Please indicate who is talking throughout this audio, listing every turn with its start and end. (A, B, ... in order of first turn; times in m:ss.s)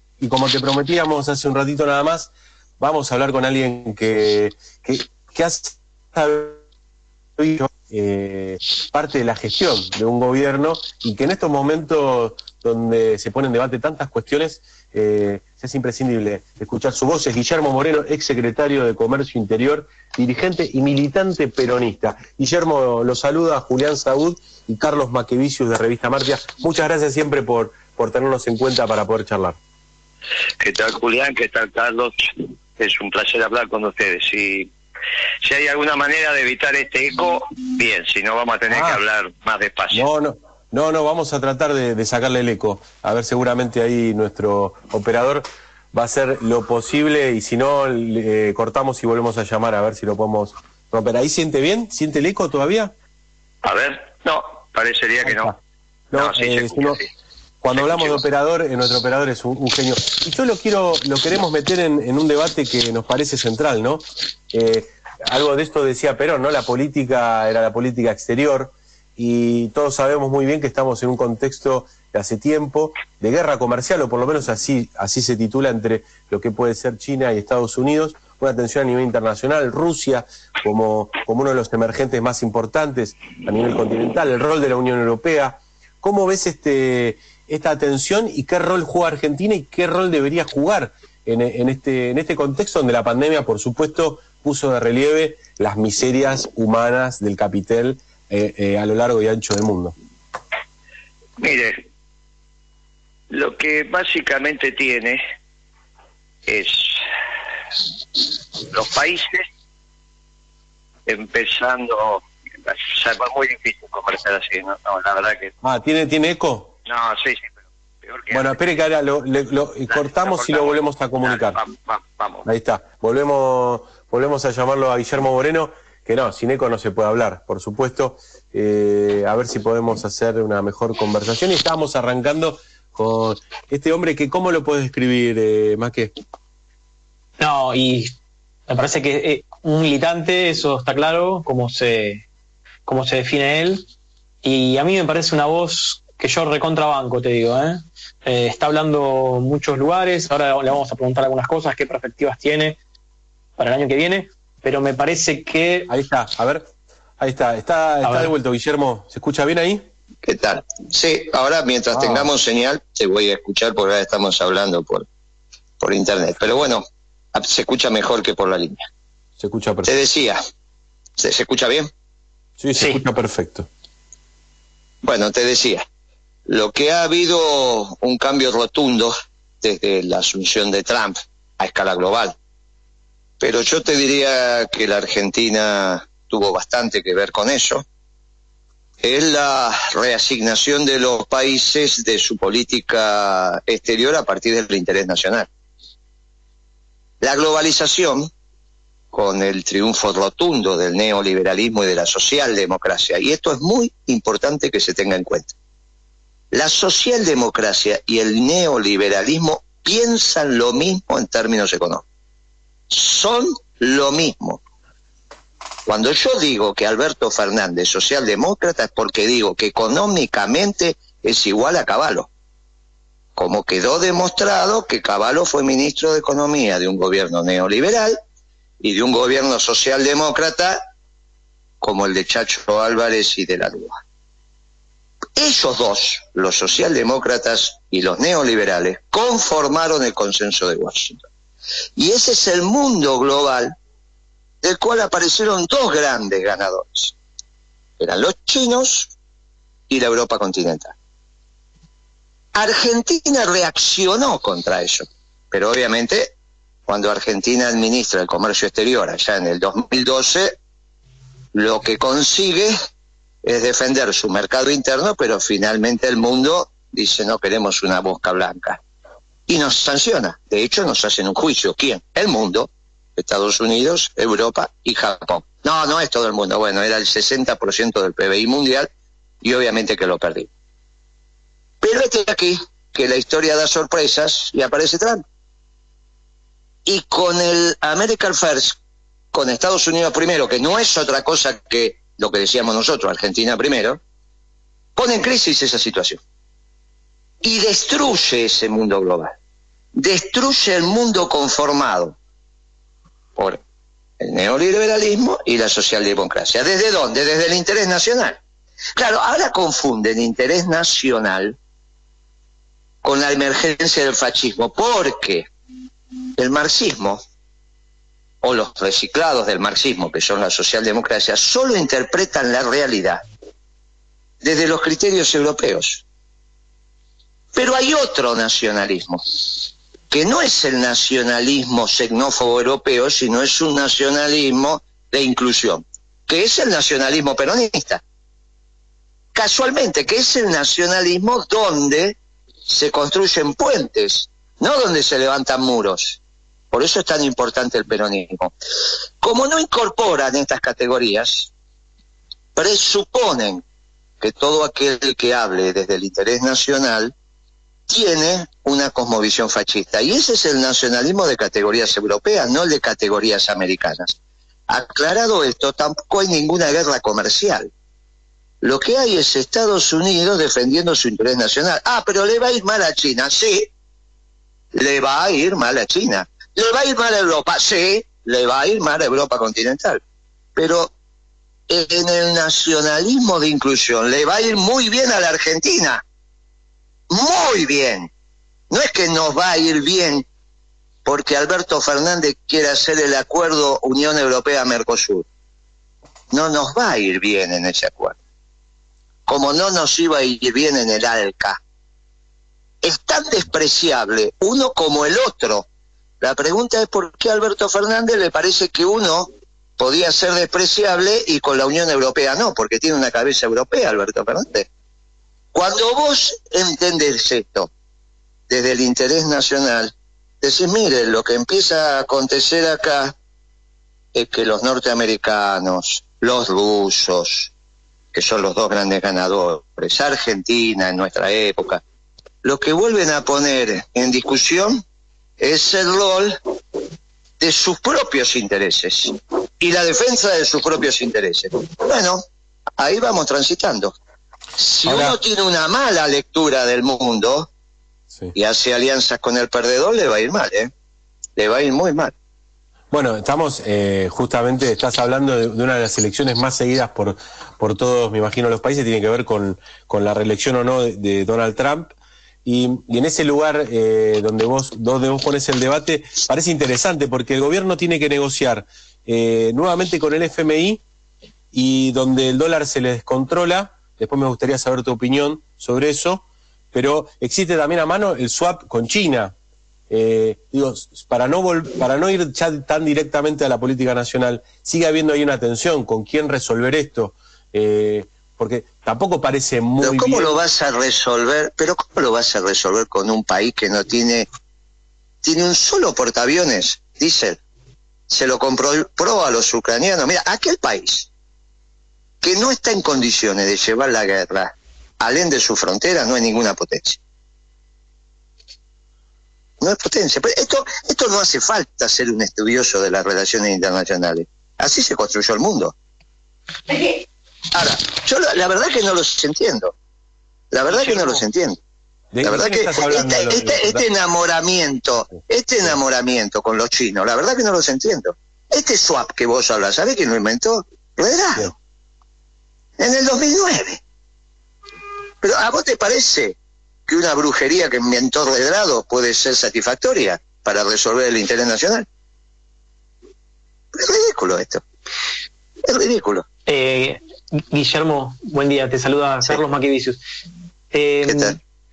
0:00.2-0:06.6 A
0:07.4-0:29.6 A
0:30.6-0:34.7 B
0:35.4-0:40.0 B
0:38.7-0:39.0 A
0:39.9-0:52.9 A
0:53.6-0:55.5 B
0:55.2-0:55.6 A
0:56.1-0:57.0 A
0:56.1-0:57.1 B
0:57.6-1:39.9 A
0:57.7-0:58.2 B
1:41.4-1:41.7 B
1:43.3-1:45.2 B
1:46.5-1:47.0 B
1:48.6-1:49.4 B
1:51.0-1:55.5 B
1:55.6-1:56.7 A
1:56.8-1:57.5 B
1:58.0-1:58.6 B
1:58.3-2:01.6 A
1:59.9-2:02.4 B
2:02.4-2:16.1 A
2:17.4-2:18.1 C
2:18.7-2:22.2 C
2:22.8-2:23.8 C
2:24.4-2:32.8 C
2:33.6-2:35.9 C
2:35.9-2:36.6 A
2:37.2-2:39.8 A
2:38.0-2:38.3 C
2:40.2-2:45.0 B
2:41.9-2:42.3 A
2:45.8-2:48.8 B
2:49.4-2:50.0 A
2:49.8-2:50.4 B
2:51.2-2:51.9 B
2:52.6-2:53.7 A
2:55.0-2:55.8 B
2:56.5-3:02.3 B
3:03.4-3:07.8 B
3:09.0-3:15.5 B
3:17.2-3:18.3 B
3:19.1-3:25.5 B
3:26.5-3:32.0 B
3:32.9-3:34.6 B
3:35.8-3:42.3 B
3:43.4-3:48.2 B
3:48.8-3:50.8 B
3:51.8-3:54.0 B
3:55.4-4:01.2 B
4:02.0-4:03.7 B
4:04.6-4:07.1 B
4:08.0-4:09.1 B
4:09.9-4:10.9 B
4:12.5-4:16.3 B
4:16.9-4:20.6 B
4:21.5-4:22.7 B
4:23.4-4:28.8 B
4:29.5-4:38.9 B
4:39.4-4:40.5 B
4:41.8-4:45.2 B
4:46.8-4:48.8 B
4:49.3-4:54.0 B
4:55.0-4:56.2 B
4:57.4-4:59.3 B
4:59.9-5:02.2 B
5:04.2-5:08.4 B
5:09.0-5:11.6 B
5:13.0-5:15.5 B
5:16.4-5:17.2 B
5:18.4-5:23.2 B
5:24.4-5:26.0 B
5:27.5-5:29.2 B
5:30.1-5:38.0 B
5:39.3-5:42.2 B
5:42.7-5:46.2 B
5:46.7-5:48.5 B
5:49.2-5:51.5 B
5:52.6-5:53.6 B
5:54.2-5:57.1 B
5:57.9-6:04.2 B
6:04.7-6:07.7 B
6:08.6-6:13.7 B
6:14.7-6:20.0 B
6:20.6-6:20.9 B
6:21.7-6:26.0 B
6:27.1-6:28.1 B
6:28.7-6:30.2 B
6:31.0-6:35.2 B
6:36.3-6:38.2 B
6:39.3-6:41.6 B
6:42.8-6:45.7 B
6:46.2-6:54.7 B
6:55.5-6:57.7 B
6:58.5-7:03.1 B
7:04.1-7:07.5 B
7:08.1-7:11.8 B
7:12.4-7:14.8 B
7:15.4-7:16.4 B
7:17.4-7:22.2 B
7:22.8-7:23.9 B
7:24.6-7:27.5 B
7:24.8-7:25.2 A
7:28.3-7:30.7 B
7:31.4-7:32.1 B
7:32.9-7:41.9 A
7:42.4-7:50.8 A
7:51.5-7:59.3 A
7:59.9-8:10.4 A
8:09.8-8:14.3 B
8:15.2-8:17.4 B
8:18.1-8:21.1 B
8:22.2-8:27.0 B
8:29.6-8:35.7 B
8:37.5-8:39.7 B
8:40.5-8:41.6 B
8:40.7-8:41.2 C
8:42.1-8:43.8 A
8:42.2-8:51.5 B
8:52.8-8:53.8 B
8:55.2-8:56.4 B
8:56.9-9:01.8 B
9:03.7-9:04.6 B
9:05.6-9:06.2 B
9:06.4-9:10.0 C
9:10.7-9:11.4 C
9:11.0-9:11.4 B